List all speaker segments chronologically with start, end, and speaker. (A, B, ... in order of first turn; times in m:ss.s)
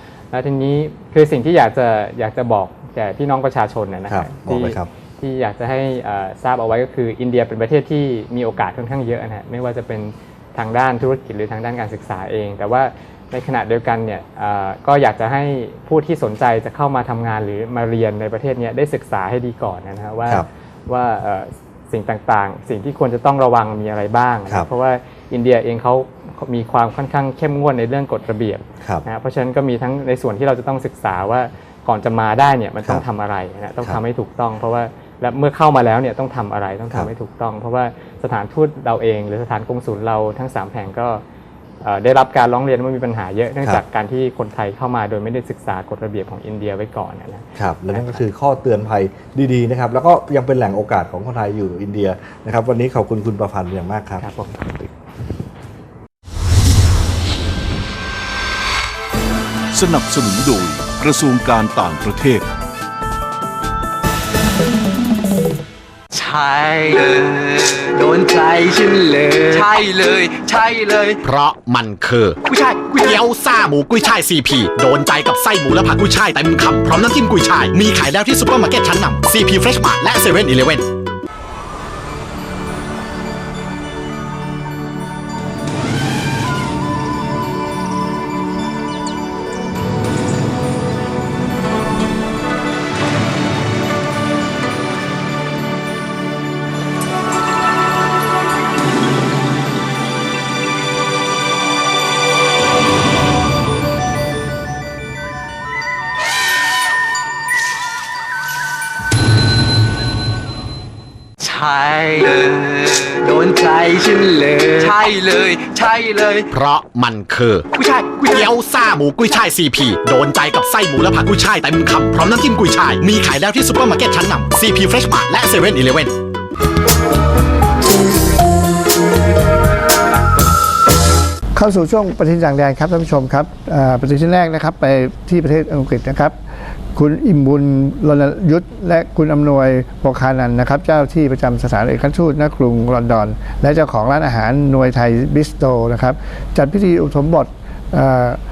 0:00.3-0:41.2 A
0:04.1-0:04.9 B
0:41.8-0:48.2 A
0:47.6-0:54.2 B
0:54.2-0:54.9 A
0:59.7-1:02.4 C
1:06.1-1:11.2 D
1:11.2-1:20.8 E
1:51.4-1:56.5 D
1:56.5-2:06.1 E
2:11.5-2:16.3 F
2:16.9-2:28.4 F